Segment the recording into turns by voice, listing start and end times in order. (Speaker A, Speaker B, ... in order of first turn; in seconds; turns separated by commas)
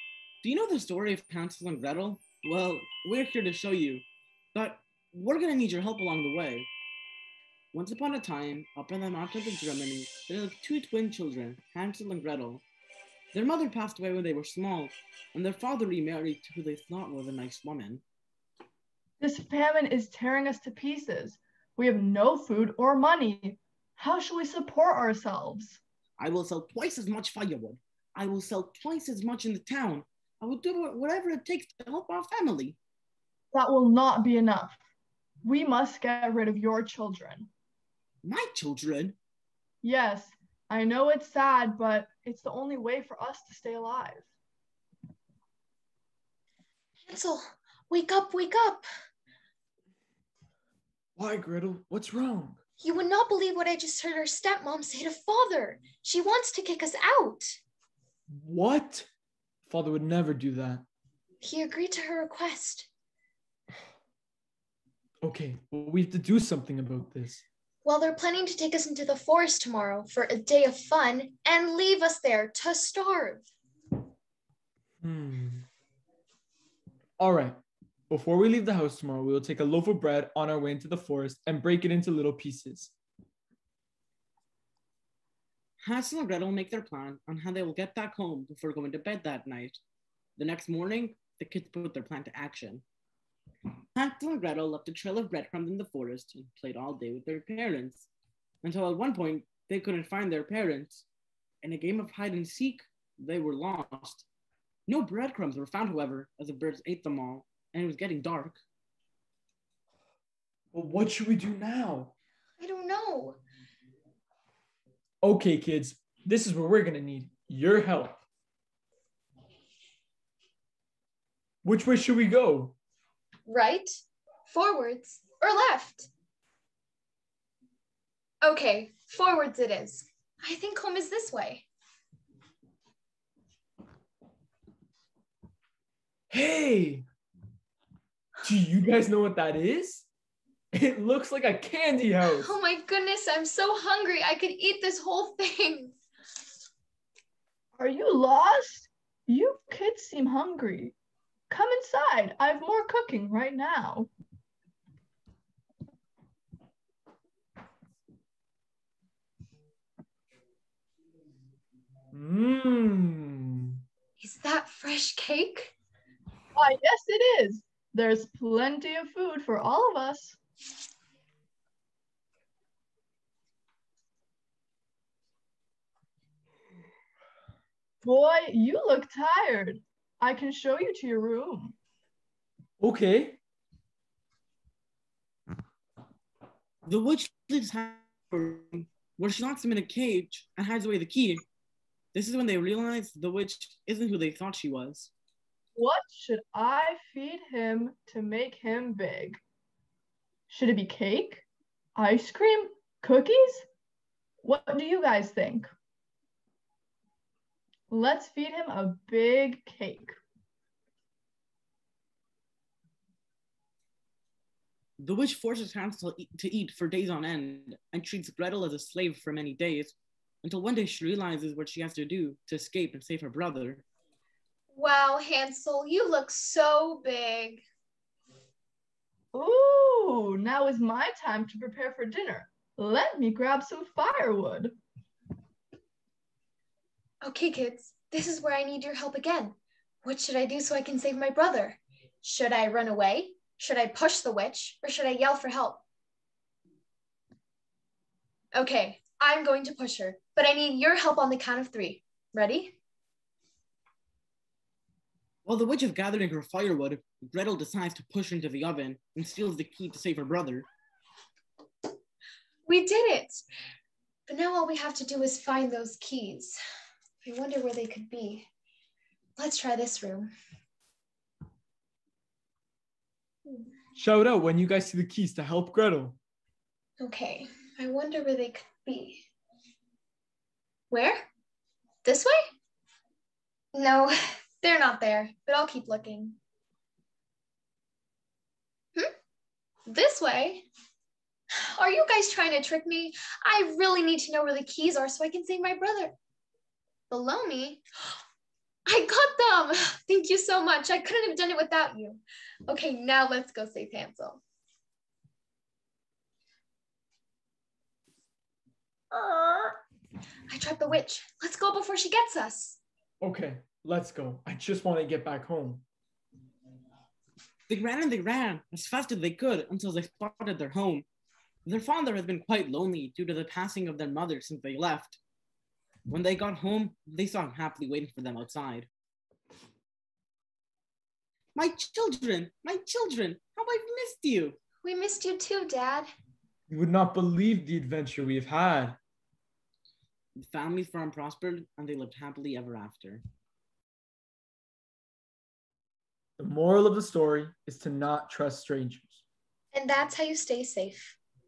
Speaker A: 0.4-6.7, Speaker A: 7.7-12.6, Speaker A: 13.3-18.0, Speaker B: 19.2-25.8, Speaker A: 26.2-32.8, Speaker B: 33.5-34.8, Speaker B: 35.4-37.5, Speaker A: 38.2-39.2, Speaker B: 39.8-44.3, Speaker C: 47.1-48.9, Speaker D: 51.2-52.6, Speaker C: 52.8-57.6, Speaker D: 58.3-59.1, Speaker D: 59.7-60.9, Speaker C: 61.4-62.9, Speaker D: 65.2-67.4, Speaker C: 67.8-73.5, Speaker D: 75.0-75.7, Speaker D: 77.2-77.6, Speaker D: 78.1-82.9, Speaker A: 85.8-89.8, Speaker A: 90.4-92.8, Speaker A: 94.0-98.1, Speaker A: 98.6-101.0, Speaker A: 101.6-104.3, Speaker A: 104.9-108.6, Speaker D: 110.7-112.1, Speaker C: 112.6-113.4, Speaker D: 115.2-118.2, Speaker D: 121.6-122.8, Speaker C: 123.5-123.9, Speaker C: 124.5-126.1, Speaker C: 128.4-131.7, Speaker D: 136.3-137.1, Speaker D: 138.4-140.1, Speaker D: 140.7-142.5, Speaker C: 142.3-146.0, Speaker B: 147.8-150.9, Speaker B: 151.5-154.1, Speaker D: 162.1-163.8, Speaker C: 164.2-165.7, Speaker B: 166.6-170.4, Speaker B: 178.0-181.8, Speaker D: 182.8-183.4, Speaker A: 186.8-191.4, Speaker A: 192.1-195.1, Speaker B: 195.8-199.4, Speaker B: 200.5-201.4, Speaker B: 201.9-203.7, Speaker B: 204.4-205.7, Speaker B: 207.9-210.2, Speaker A: 215.0-223.8, Speaker C: 224.7-227.6, Speaker B: 229.3-234.8, Speaker C: 237.2-245.8, Speaker C: 248.5-252.8, Speaker A: 255.4-260.7, Speaker C: 262.7-263.4, Speaker C: 264.3-266.6, Speaker C: 267.2-268.5, Speaker C: 269.4-270.3, Speaker D: 273.9-276.2, Speaker C: 277.0-279.3, Speaker C: 280.9-281.3, Speaker C: 282.0-282.4, Speaker C: 283.7-286.4, Speaker C: 289.9-290.6, Speaker C: 291.6-296.1, Speaker C: 297.1-297.8, Speaker C: 298.9-304.4, Speaker C: 309.1-309.7, Speaker C: 310.5-312.8, Speaker D: 313.2-315.8, Speaker A: 317.7-321.1, Speaker A: 321.6-325.2, Speaker A: 326.1-328.9, Speaker A: 331.6-334.6, Speaker C: 334.8-336.1, Speaker D: 336.7-339.0, Speaker A: 340.4-343.2, Speaker D: 346.4-349.2, Speaker C: 349.7-351.2